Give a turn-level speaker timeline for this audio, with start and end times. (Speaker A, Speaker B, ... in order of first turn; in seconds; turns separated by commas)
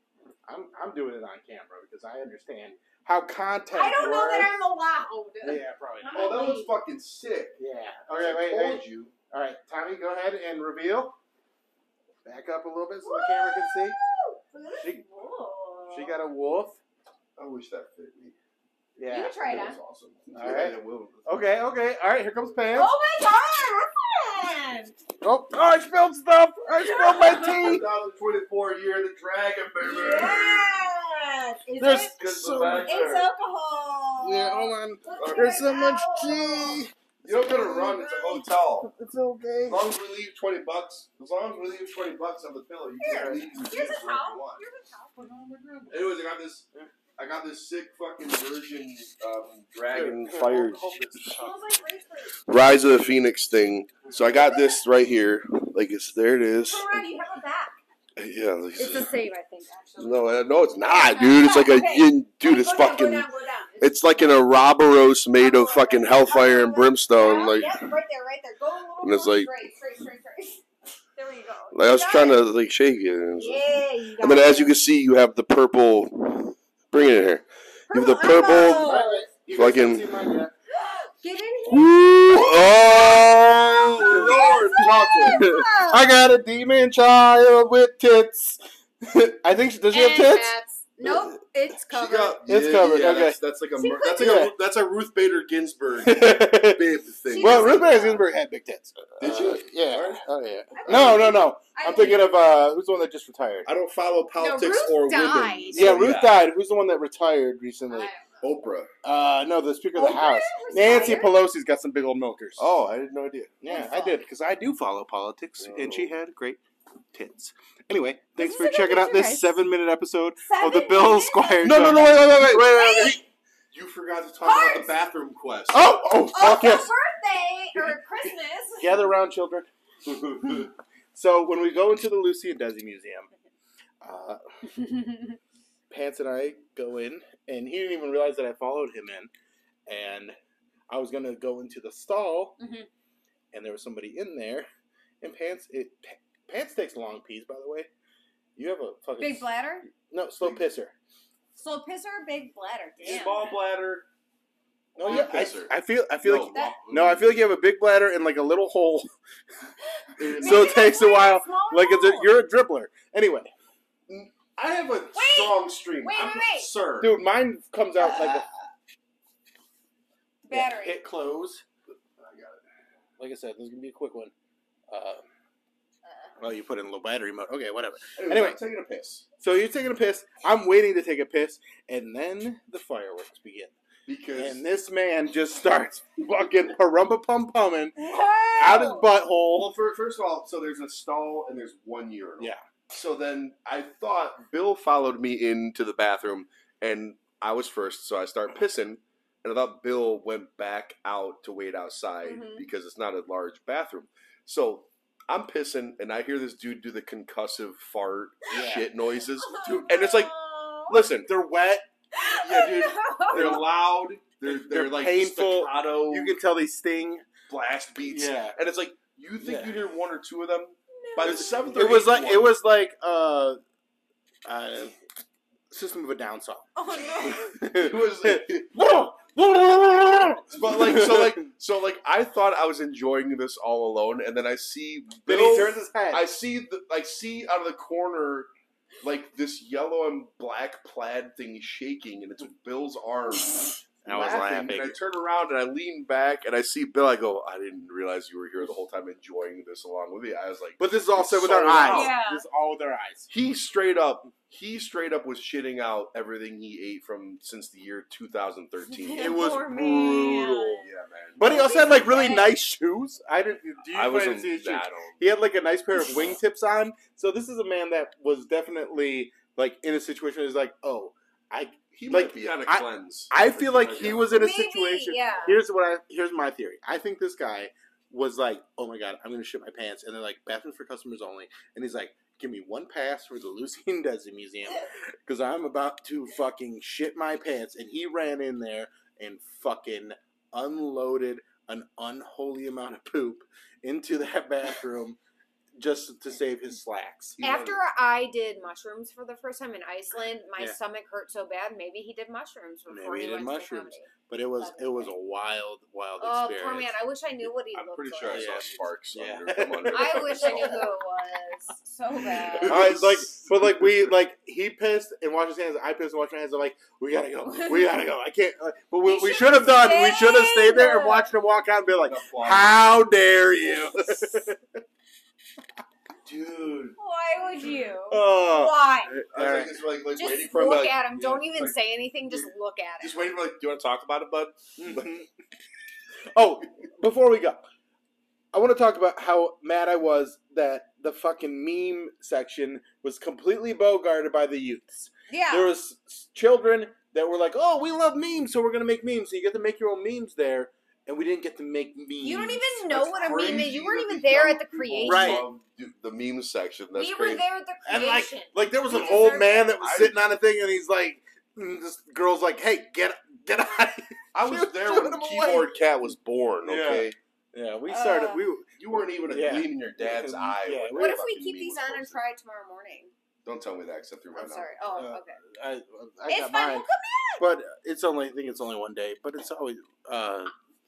Speaker A: 0.5-4.5, Speaker B: 3.7-6.7, Speaker A: 5.4-6.4, Speaker C: 6.1-7.6, Speaker A: 7.6-11.2, Speaker C: 8.1-9.1, Speaker A: 12.2-14.0, Speaker B: 13.0-16.2, Speaker A: 15.9-16.8, Speaker C: 17.4-18.4, Speaker A: 19.0-19.4, Speaker B: 19.1-19.8, Speaker C: 19.4-21.4, Speaker A: 20.3-22.9, Speaker B: 22.7-25.0, Speaker A: 25.2-27.8, Speaker B: 26.8-27.7, Speaker C: 27.2-30.7, Speaker B: 29.8-36.8, Speaker A: 31.8-33.0, Speaker C: 32.2-33.3, Speaker A: 34.2-38.0, Speaker C: 35.2-35.6, Speaker C: 37.2-38.9, Speaker B: 37.5-38.5, Speaker A: 38.8-39.9, Speaker C: 39.6-44.6, Speaker B: 43.0-45.9, Speaker A: 43.1-43.6, Speaker A: 45.3-45.9, Speaker C: 45.9-50.9, Speaker A: 49.9-51.6, Speaker B: 51.2-52.4, Speaker C: 52.5-57.0, Speaker B: 56.7-57.8, Speaker C: 58.2-59.1, Speaker B: 58.8-64.4, Speaker C: 60.0-63.3, Speaker C: 63.8-67.9, Speaker B: 65.4-70.6, Speaker C: 69.0-69.5, Speaker B: 71.2-72.4, Speaker C: 71.7-78.9, Speaker B: 73.3-74.7, Speaker B: 77.9-79.2, Speaker A: 78.8-80.5, Speaker C: 79.5-80.1, Speaker B: 80.7-82.8, Speaker C: 81.7-85.4, Speaker B: 83.8-86.1, Speaker A: 84.1-91.1, Speaker B: 89.9-92.4, Speaker C: 91.9-98.0, Speaker A: 92.5-93.4, Speaker B: 93.8-94.5, Speaker A: 94.2-94.5, Speaker A: 96.0-96.8, Speaker B: 97.3-98.3, Speaker A: 97.4-103.7, Speaker C: 99.2-100.2, Speaker B: 100.7-102.4, Speaker C: 100.8-102.2, Speaker C: 103.7-106.5, Speaker B: 104.4-106.0, Speaker A: 105.7-108.1, Speaker B: 107.9-108.6, Speaker C: 108.4-108.9, Speaker A: 109.0-112.7, Speaker B: 109.9-111.4, Speaker C: 112.6-113.5, Speaker A: 113.6-116.6, Speaker B: 113.7-114.2, Speaker C: 115.6-116.1, Speaker A: 117.1-123.2, Speaker B: 118.4-119.6, Speaker B: 120.5-123.2, Speaker C: 121.6-123.2, Speaker C: 123.7-125.9, Speaker B: 124.4-125.0, Speaker A: 125.7-126.9, Speaker B: 126.2-129.0, Speaker A: 128.8-129.7, Speaker C: 130.1-130.7, Speaker A: 130.4-133.3, Speaker A: 134.0-134.4, Speaker B: 134.8-135.4, Speaker A: 135.9-139.3, Speaker A: 139.9-140.4, Speaker A: 140.9-142.6, Speaker B: 142.6-142.9, Speaker A: 143.5-144.7, Speaker A: 145.2-147.9, Speaker A: 148.6-150.9, Speaker B: 149.2-149.9, Speaker B: 151.6-153.5, Speaker C: 153.0-154.1, Speaker A: 155.0-159.1, Speaker B: 155.0-155.3, Speaker C: 155.0-157.4, Speaker B: 156.5-156.8, Speaker C: 160.2-160.9, Speaker B: 160.3-162.3, Speaker A: 160.3-163.5, Speaker C: 164.1-167.2, Speaker B: 165.1-166.7, Speaker A: 167.0-168.5, Speaker B: 168.0-168.5, Speaker B: 170.4-171.0, Speaker A: 170.5-171.6, Speaker C: 172.2-172.6, Speaker A: 173.2-174.3, Speaker A: 174.9-175.2, Speaker B: 176.1-176.3, Speaker A: 176.4-178.6, Speaker C: 178.2-179.2, Speaker A: 179.4-183.7, Speaker C: 184.1-184.6, Speaker A: 184.3-188.0, Speaker B: 188.0-189.1, Speaker A: 188.6-189.7, Speaker C: 189.5-210.3, Speaker B: 202.2-202.7, Speaker A: 208.5-208.9, Speaker B: 209.4-211.0, Speaker C: 210.9-211.3, Speaker A: 210.9-211.9, Speaker B: 212.2-213.7, Speaker C: 212.4-216.3, Speaker A: 213.3-213.7, Speaker A: 214.5-217.2, Speaker C: 217.5-222.6, Speaker A: 218.0-218.6, Speaker A: 219.4-219.9, Speaker B: 220.9-221.7, Speaker A: 221.2-223.6, Speaker A: 224.4-224.9, Speaker A: 225.7-226.7, Speaker B: 226.8-227.5, Speaker A: 227.2-231.4, Speaker C: 227.7-228.9, Speaker C: 230.5-238.5, Speaker A: 235.3-236.3, Speaker C: 239.0-252.2, Speaker A: 244.1-245.0, Speaker A: 250.8-253.3, Speaker B: 251.8-252.4, Speaker C: 253.3-259.4, Speaker B: 258.9-260.9, Speaker A: 259.1-260.9, Speaker C: 260.8-261.6, Speaker A: 261.4-295.2, Speaker B: 261.4-262.6, Speaker C: 263.9-265.2, Speaker B: 265.9-266.4, Speaker C: 271.9-274.5, Speaker B: 274.4-275.6, Speaker A: 295.8-297.4, Speaker C: 297.4-297.8, Speaker B: 297.4-305.1, Speaker A: 302.9-306.9, Speaker B: 306.2-308.6, Speaker C: 307.7-310.9, Speaker A: 308.3-310.8, Speaker B: 309.9-312.9, Speaker C: 312.2-314.0, Speaker A: 312.6-324.6, Speaker B: 319.0-321.3, Speaker C: 322.0-322.9, Speaker C: 326.2-327.0, Speaker B: 327.0-329.1, Speaker A: 328.1-329.8, Speaker C: 329.3-332.5, Speaker B: 330.1-333.2, Speaker C: 333.0-335.2, Speaker A: 334.8-335.3, Speaker A: 336.3-337.7, Speaker A: 338.5-352.6, Speaker B: 345.3-345.7, Speaker B: 352.2-355.5, Speaker C: 352.9-357.4, Speaker A: 355.0-355.4, Speaker B: 356.9-359.8, Speaker A: 357.9-365.8, Speaker C: 359.8-360.2, Speaker C: 364.3-367.2, Speaker A: 366.6-371.3, Speaker B: 367.9-368.5, Speaker C: 368.8-372.2, Speaker B: 370.9-373.1, Speaker C: 373.4-374.7, Speaker B: 374.3-375.4, Speaker A: 374.9-376.9, Speaker B: 376.3-377.4, Speaker A: 377.4-380.5